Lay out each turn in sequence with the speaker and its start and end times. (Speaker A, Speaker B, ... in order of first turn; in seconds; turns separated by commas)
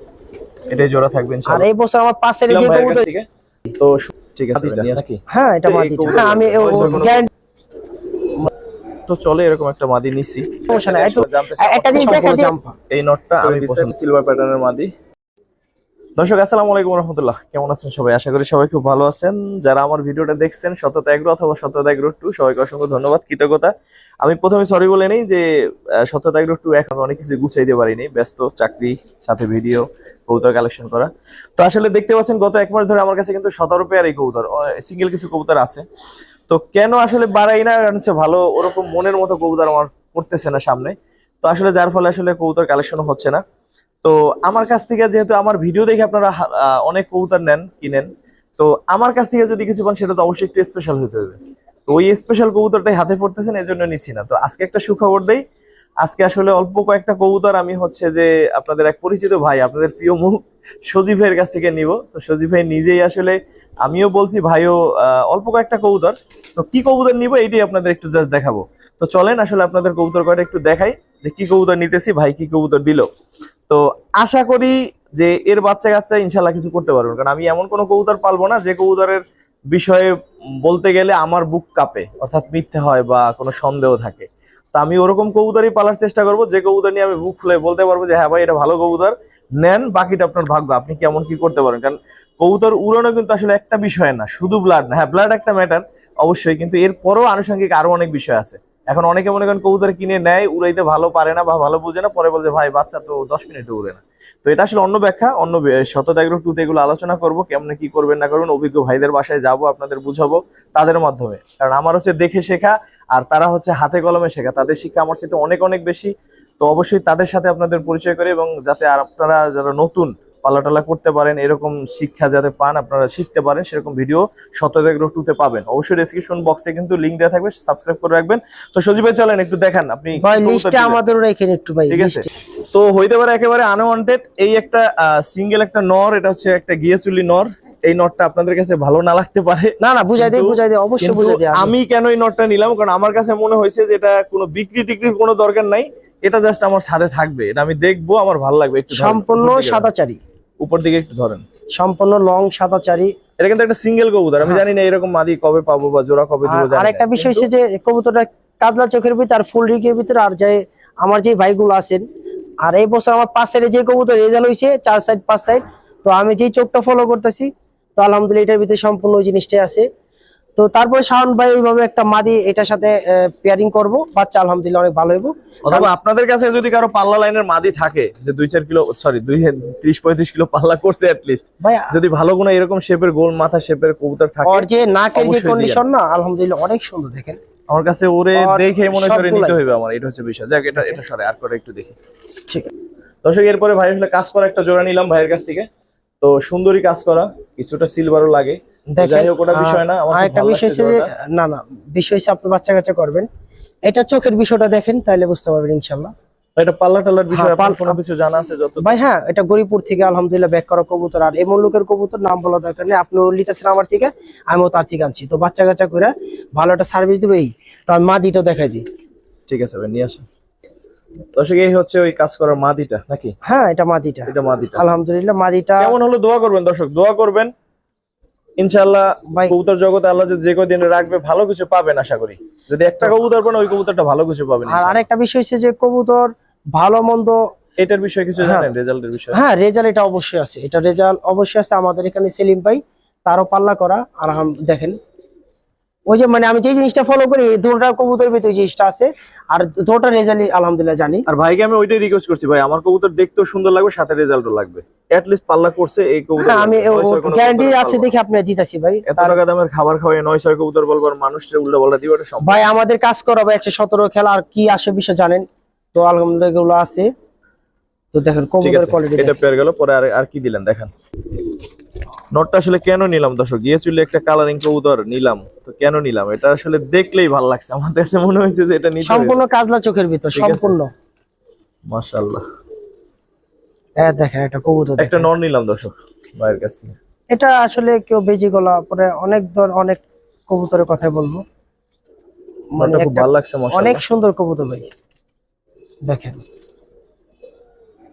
Speaker A: 0.7-1.7, Speaker B: 1.5-3.0, Speaker A: 2.5-7.3, Speaker B: 5.3-7.3, Speaker A: 9.1-14.9, Speaker B: 10.7-12.7, Speaker A: 16.2-25.5, Speaker A: 26.0-35.8, Speaker A: 36.5-43.4, Speaker A: 44.0-55.4, Speaker A: 56.0-73.1, Speaker A: 73.7-131.0, Speaker B: 130.2-132.3, Speaker A: 131.9-149.9, Speaker B: 139.8-141.7, Speaker B: 148.9-150.2, Speaker A: 150.6-151.4, Speaker B: 151.8-153.1, Speaker A: 153.4-157.5, Speaker B: 156.4-162.0, Speaker B: 162.6-169.9, Speaker B: 170.6-175.9, Speaker A: 175.6-185.8, Speaker B: 181.6-181.9, Speaker B: 184.4-187.4, Speaker A: 187.7-191.9, Speaker B: 188.3-189.6, Speaker A: 193.2-195.7, Speaker A: 196.2-201.1, Speaker B: 198.9-203.3, Speaker B: 203.8-206.1, Speaker A: 206.6-208.9, Speaker B: 207.3-208.0, Speaker B: 208.8-218.8, Speaker A: 219.5-220.2, Speaker A: 221.3-223.3, Speaker B: 223.4-225.9, Speaker A: 224.3-224.8, Speaker A: 225.8-227.5, Speaker A: 228.6-235.0, Speaker B: 234.7-237.4, Speaker A: 237.8-239.4, Speaker B: 238.4-238.7, Speaker B: 239.3-245.0, Speaker B: 246.1-251.2, Speaker A: 251.2-258.1, Speaker B: 256.4-259.4, Speaker A: 259.1-262.7, Speaker B: 262.4-267.1, Speaker B: 268.1-269.4, Speaker A: 268.6-270.9, Speaker A: 272.3-279.4, Speaker B: 279.0-280.9, Speaker A: 280.3-280.7, Speaker A: 281.9-282.4, Speaker B: 284.0-285.3, Speaker A: 285.0-286.9, Speaker B: 287.3-291.4, Speaker B: 292.7-294.9, Speaker A: 292.8-294.0, Speaker B: 296.1-296.4